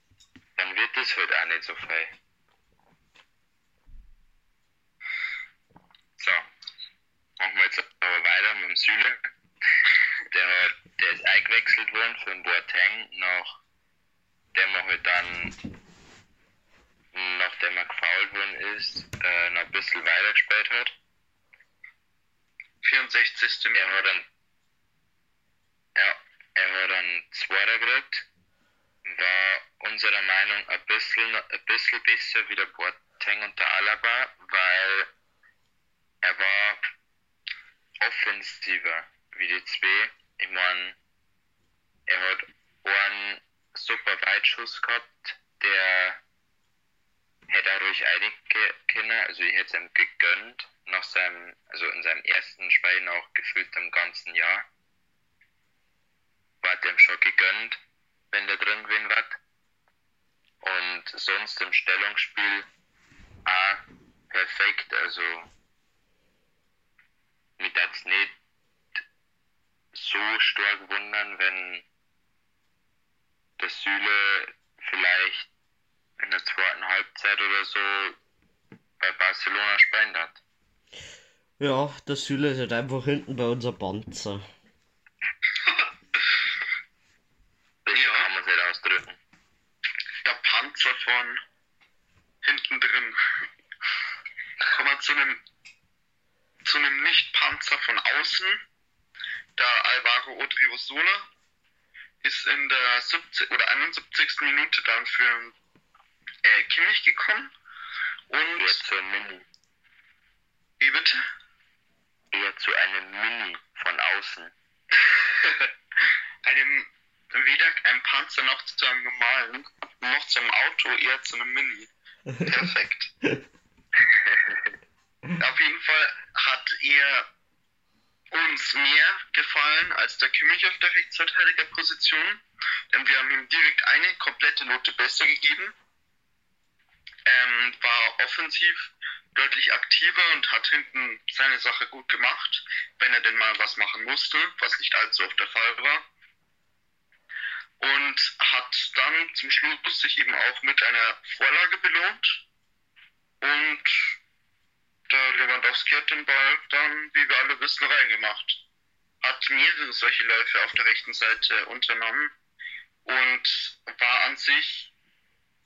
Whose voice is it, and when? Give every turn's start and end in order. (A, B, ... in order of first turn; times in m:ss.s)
0:00.6-0:02.1 A
0:06.2-0:06.4 A
0:07.4-0:09.2 A
0:10.3-0:13.6 A
0:14.5-0:15.6 A
0:17.1-0:20.9 A
0:22.8-0:24.0 B
0:23.7-0:24.2 A
0:26.0-0:28.2 A
0:29.0-0:35.1 A
0:36.2-0:36.8 A
0:38.0-0:41.0 A
0:42.1-0:46.2 A
0:47.5-0:54.7 A
0:56.6-0:57.8 A
0:58.3-0:59.4 A
1:00.6-1:02.7 A
1:03.4-1:05.5 A
1:07.6-1:08.3 A
1:09.9-1:11.8 A
1:13.6-1:15.5 A
1:16.2-1:18.2 A
1:19.0-1:20.4 A
1:21.6-1:24.4 C
1:27.8-1:29.2 A
1:27.9-1:28.3 B
1:30.2-1:31.4 B
1:32.4-1:33.2 B
1:34.6-1:35.4 B
1:36.6-1:38.6 B
1:39.6-1:41.3 B
1:42.2-1:45.6 B
1:46.4-1:47.5 B
1:48.3-1:48.8 B
1:48.6-1:49.4 A
1:50.8-1:51.2 B
1:52.3-1:54.5 A
1:55.0-1:55.7 B
1:56.4-2:01.9 B
2:02.4-2:03.1 B
2:04.1-2:04.6 A
2:05.4-2:07.3 B
2:08.3-2:15.7 B
2:17.2-2:26.1 B
2:27.8-2:32.4 B
2:33.4-2:34.2 B
2:35.1-2:38.6 B
2:39.2-2:42.3 B
2:43.0-2:44.9 B